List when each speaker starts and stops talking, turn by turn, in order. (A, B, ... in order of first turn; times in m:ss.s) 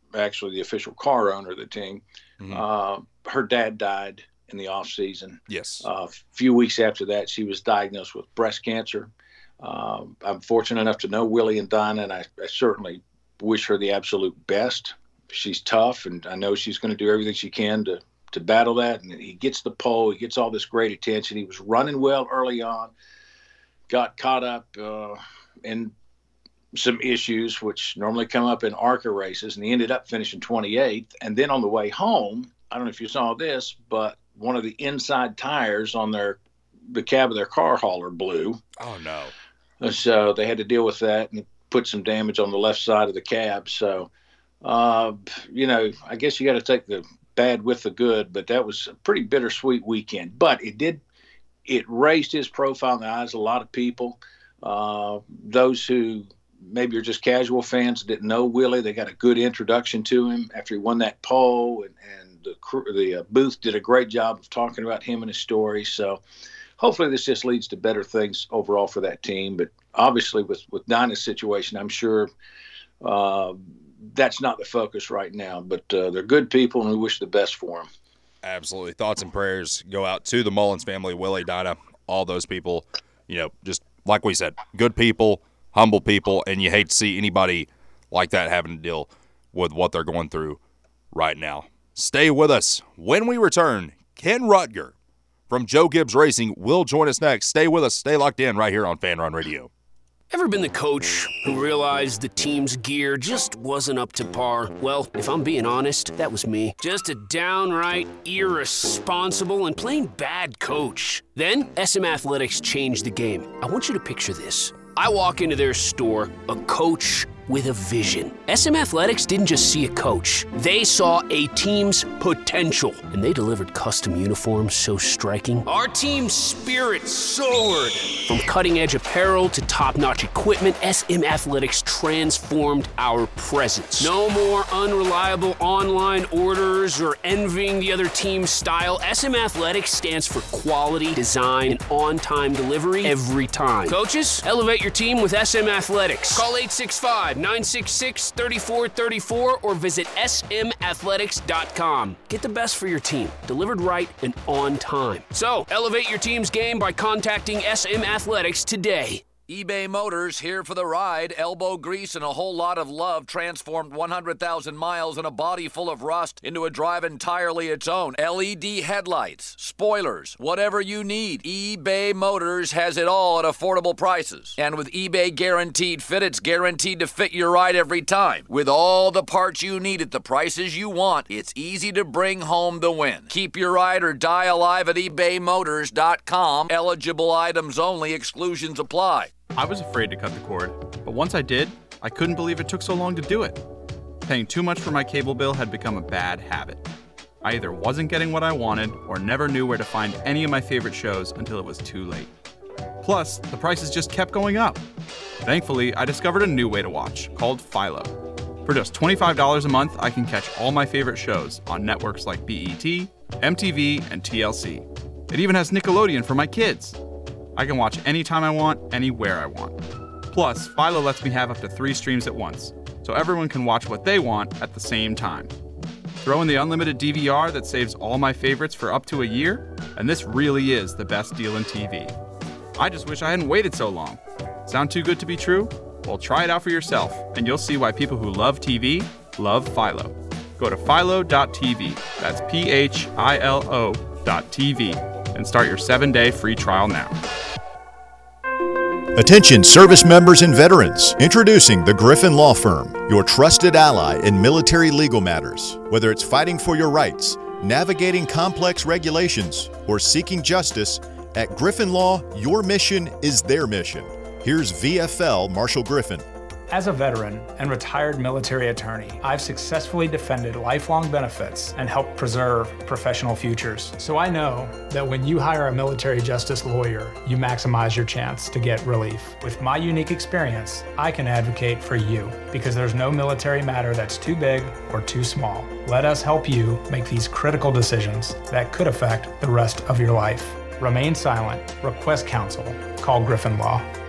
0:00.1-0:09.1 A
0:05.5-0:05.8 B
0:09.6-0:22.9 A
0:23.9-0:25.9 A
0:26.7-0:36.4 A
0:36.9-0:38.6 A
0:38.8-0:39.3 B
0:39.8-0:44.1 A
0:44.6-0:51.0 A
0:51.6-1:06.2 A
1:06.8-1:12.3 A
1:13.0-1:17.9 A
1:18.4-1:30.6 B
1:31.1-1:34.9 B
1:35.5-1:39.7 B
1:40.3-2:39.3 C
2:39.4-3:09.3 D
3:09.5-3:13.6 E
3:14.2-3:16.8 E
3:17.4-3:22.3 E
3:23.0-3:24.8 E
3:25.4-3:37.0 E
3:37.6-3:39.8 E
3:40.3-3:45.5 E
3:46.2-3:52.1 E
3:52.8-4:07.2 E
4:09.1-4:26.2 F
4:26.7-4:53.9 G